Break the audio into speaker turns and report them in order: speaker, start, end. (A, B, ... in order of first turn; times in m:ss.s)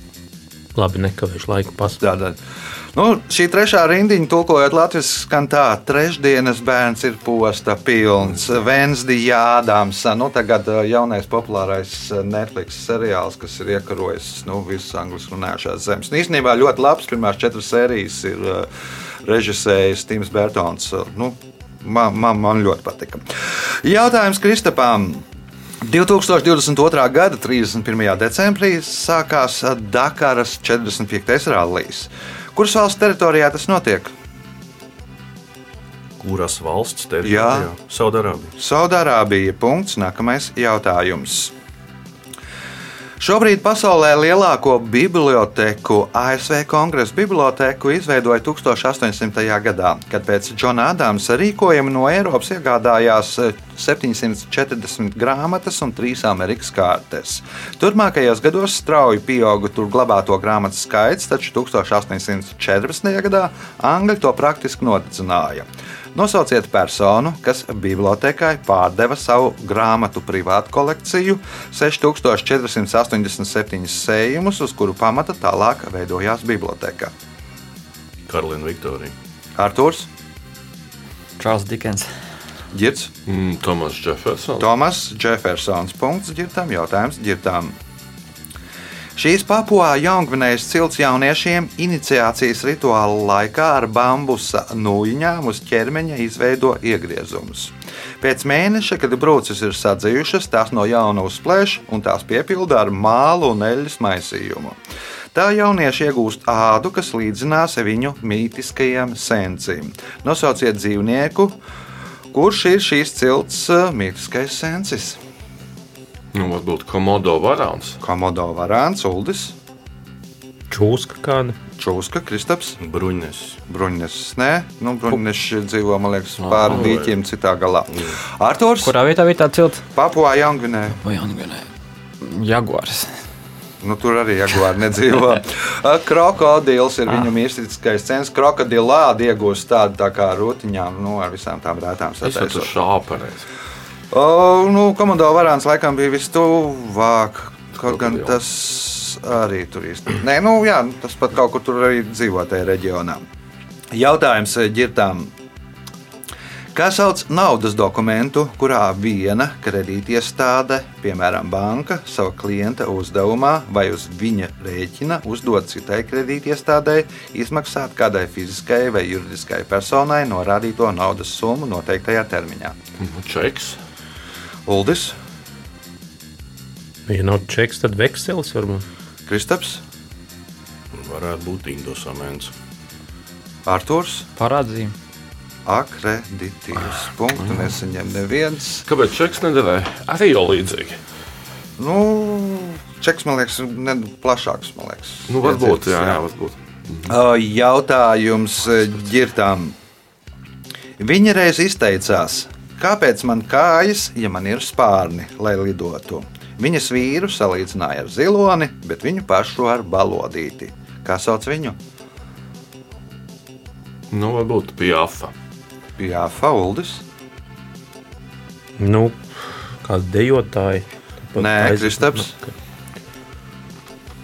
0:00.7-0:02.0 A
0:02.0-0:02.4 B
0:02.9-0:18.7 B
0:19.2-0:25.2 B
0:25.8-0:34.1 B
0:36.2-0:38.5 C
0:37.2-0:37.7 B
0:38.6-0:41.5 B
0:43.2-1:17.1 B
1:18.3-1:19.1 C
1:19.6-1:20.1 B
1:21.4-1:22.1 D
1:22.7-1:23.1 B
1:23.3-1:24.7 E
1:24.6-1:27.8 B
1:29.2-1:44.8 B
1:45.3-1:51.6 B
1:52.3-1:55.2 B
1:56.3-1:58.0 E
1:58.0-1:59.5 B
2:00.7-2:01.6 A
2:01.8-2:02.8 B
2:02.8-2:03.6 C
2:03.7-2:08.9 B
2:06.4-2:07.1 E
2:08.8-2:09.8 D
2:09.9-2:11.0 B
2:11.0-2:11.7 D
2:12.2-2:13.2 D
2:13.8-2:22.8 B
2:22.2-2:23.5 E
2:24.1-2:33.2 B
2:28.0-2:28.3 E
2:33.9-2:35.3 B
2:36.7-2:52.8 B
2:53.0-2:53.8 E
2:54.6-2:55.2 B
2:57.1-2:58.8 A
2:59.3-2:59.8 B
3:00.9-3:02.5 C
3:03.6-3:04.3 B
3:04.4-3:04.9 D
3:05.6-3:08.8 B
3:08.9-3:11.0 E
3:11.8-3:16.2 B
3:15.3-3:17.1 E
3:17.0-3:19.8 B
3:21.0-3:31.8 B
3:34.1-3:35.3 E
3:36.0-3:37.0 B
3:38.8-3:42.5 A
3:41.4-3:42.3 B